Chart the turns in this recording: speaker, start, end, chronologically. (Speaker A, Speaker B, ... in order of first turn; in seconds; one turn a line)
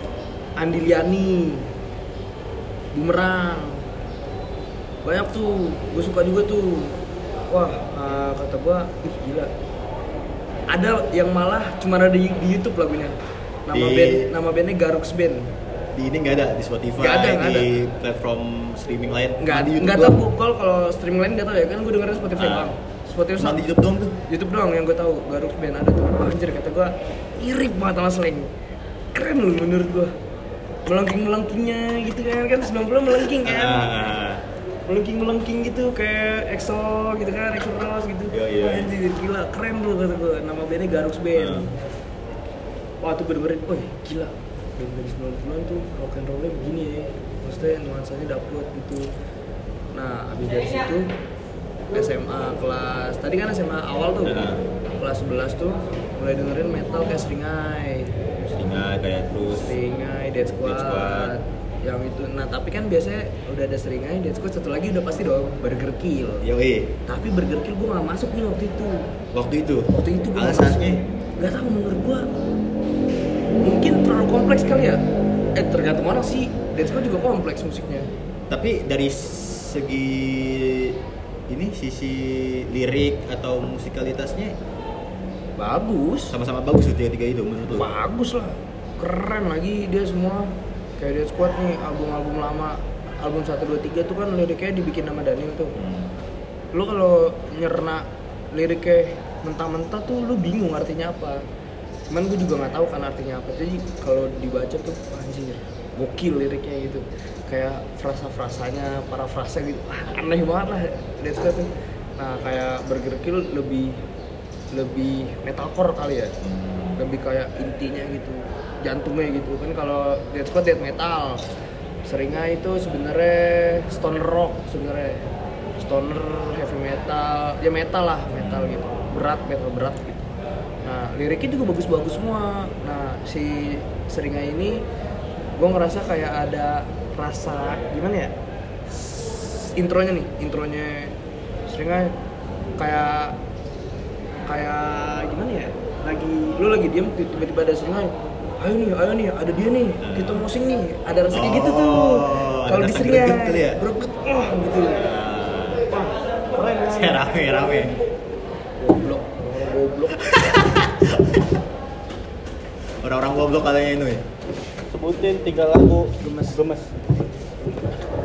Speaker A: 0.6-1.7
Speaker A: 2.9-3.8
Speaker A: 5.0-9.5
Speaker A: 10.7-15.5
Speaker B: 13.7-14.3
Speaker B: 15.9-20.2
Speaker A: 17.0-17.7
Speaker A: 19.4-23.6
Speaker B: 22.3-22.7
Speaker B: 23.4-24.1
Speaker A: 24.3-28.5
Speaker A: 29.1-30.1
Speaker A: 30.9-33.9
Speaker B: 33.4-34.4
Speaker A: 34.9-41.7
Speaker B: 38.3-38.9
Speaker B: 41.3-41.7
Speaker A: 43.0-49.1
Speaker A: 49.9-51.1
Speaker A: 51.9-58.1
Speaker B: 54.2-54.6
Speaker B: 58.5-59.7
Speaker A: 59.5-66.4
Speaker B: 60.6-61.3
Speaker B: 66.4-66.9
Speaker A: 67.0-69.1
Speaker B: 69.3-71.0
Speaker A: 69.9-72.3
Speaker A: 73.6-75.0
Speaker A: 75.5-78.1
Speaker B: 78.5-84.5
Speaker A: 85.6-86.3
Speaker B: 86.3-87.9
Speaker A: 87.7-95.8
Speaker B: 95.8-96.1
Speaker A: 96.7-101.4
Speaker A: 102.1-114.0
Speaker A: 114.7-116.3
Speaker B: 116.4-117.0
Speaker A: 117.0-121.5
Speaker A: 122.0-125.2
Speaker A: 125.8-130.3
Speaker B: 128.3-128.8
Speaker A: 130.8-134.8
Speaker A: 135.6-138.3
Speaker A: 138.9-141.1
Speaker A: 141.7-142.2
Speaker A: 142.8-143.4
Speaker A: 144.4-155.0
Speaker B: 150.0-150.4
Speaker B: 151.3-153.8
Speaker B: 154.9-155.8
Speaker A: 155.9-157.2
Speaker B: 156.9-157.9
Speaker A: 158.8-160.2
Speaker B: 160.1-161.5
Speaker B: 163.0-164.2
Speaker C: 164.9-166.9
Speaker A: 166.2-166.6